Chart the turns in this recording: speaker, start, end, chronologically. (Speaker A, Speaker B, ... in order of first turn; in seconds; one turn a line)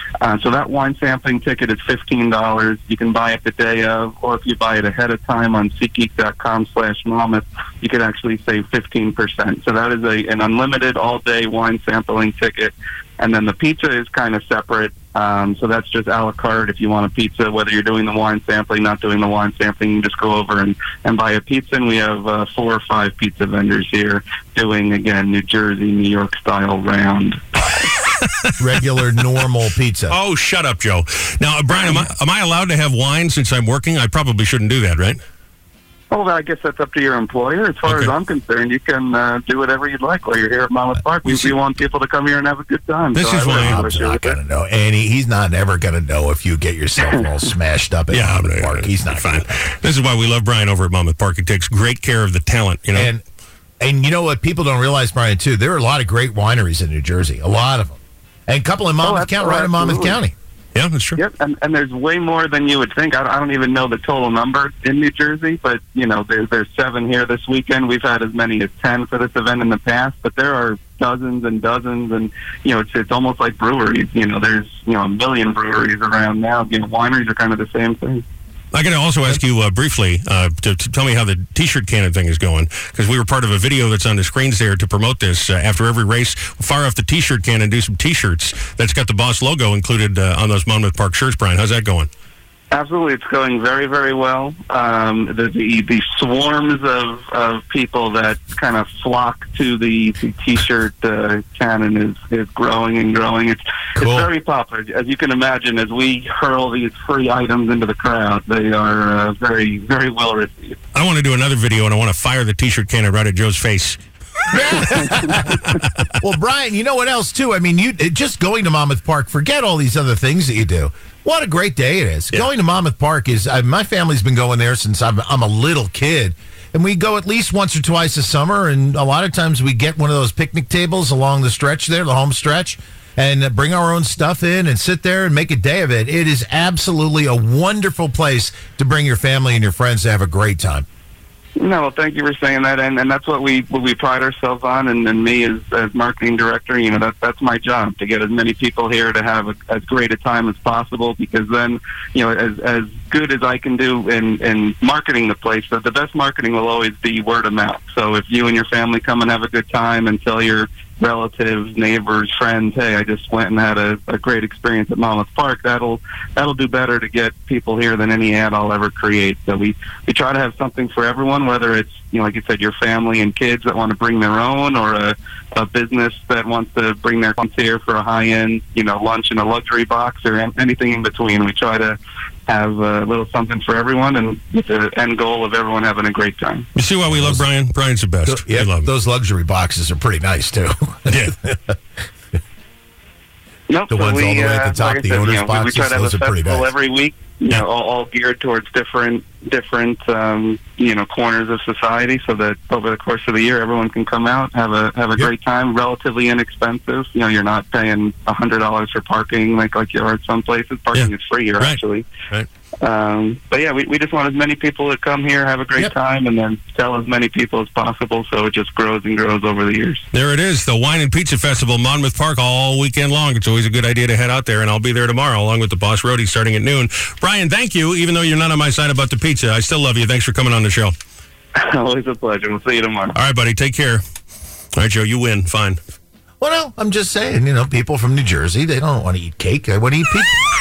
Speaker A: 0.2-27.9
Speaker B: 28.6-30.2
Speaker C: 30.1-35.2
Speaker A: 36.1-44.4
Speaker C: 37.9-38.1
Speaker C: 43.1-43.8
Speaker B: 43.4-49.5
Speaker C: 48.1-53.1
Speaker B: 52.9-53.2
Speaker B: 53.8-60.3
Speaker A: 59.0-60.2
Speaker C: 60.7-61.2
Speaker A: 61.2-78.2
Speaker C: 78.7-92.1
Speaker A: 92.7-110.8
Speaker B: 104.0-104.3
Speaker C: 110.9-114.0
Speaker B: 114.5-115.6
Speaker C: 114.5-115.9
Speaker B: 116.2-140.8
Speaker A: 141.6-182.0
Speaker A: 182.5-186.7
Speaker C: 186.8-188.9
Speaker B: 187.1-187.4
Speaker B: 188.2-191.8
Speaker C: 191.1-191.3
Speaker A: 193.7-212.1
Speaker B: 193.9-196.7
Speaker C: 210.9-212.5
Speaker A: 212.8-220.0
Speaker C: 220.1-230.9
Speaker A: 231.5-233.1
Speaker C: 233.1-234.0
Speaker C: 234.8-235.8
Speaker B: 236.4-240.4